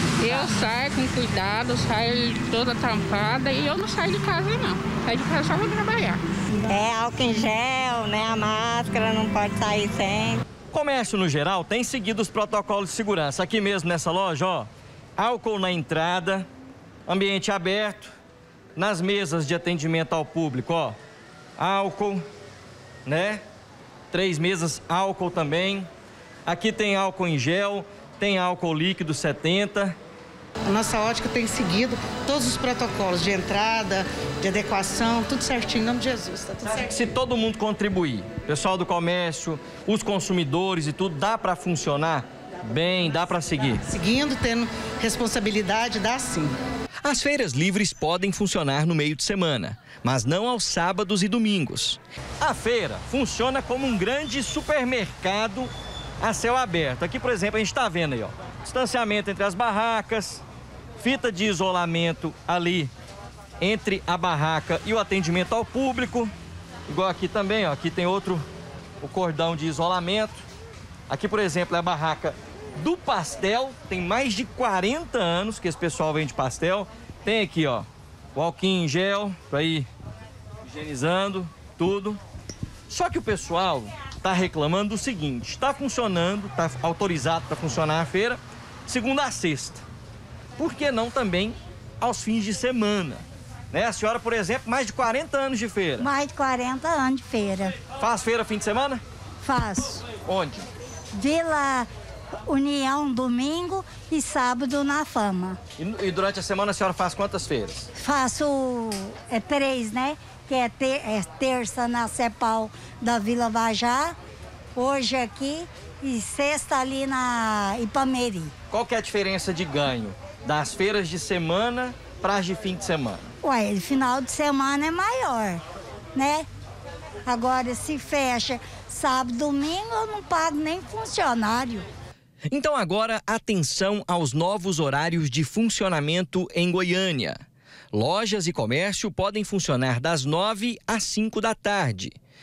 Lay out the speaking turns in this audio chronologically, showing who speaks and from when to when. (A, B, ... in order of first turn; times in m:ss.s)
0:00.2-0:06.2 A
0:06.7-0:10.4 B
0:10.7-0:16.5 C
0:17.1-0:18.1 C
0:18.8-0:21.0 C
0:21.6-0:22.2 C
0:23.0-0:23.4 C
0:24.1-0:25.9 C
0:26.4-0:29.9 C
0:30.6-0:36.9 D
0:36.6-0:43.8 C
0:43.8-0:46.6 D
0:47.0-1:00.4 C
1:01.0-1:02.9 C
1:03.6-1:06.3 C
1:06.9-1:08.4 C
1:09.0-1:10.4 C
1:11.1-1:19.9 C
1:20.6-1:22.2 C
1:22.9-1:29.8 C
1:30.6-1:36.1 C
1:36.0-1:37.8 E
1:37.9-1:39.0 C
1:39.4-1:40.0 E
1:40.2-1:40.7 C
1:41.1-1:41.9 E
1:42.5-1:45.6 E
1:45.8-1:47.9 C
1:48.0-1:54.1 E
1:54.8-1:58.5 E
1:58.7-2:03.3 C
2:03.4-2:05.6 E
2:06.1-2:06.4 E
2:07.2-2:11.8 E
2:12.5-2:17.4 C
2:17.9-2:22.2 C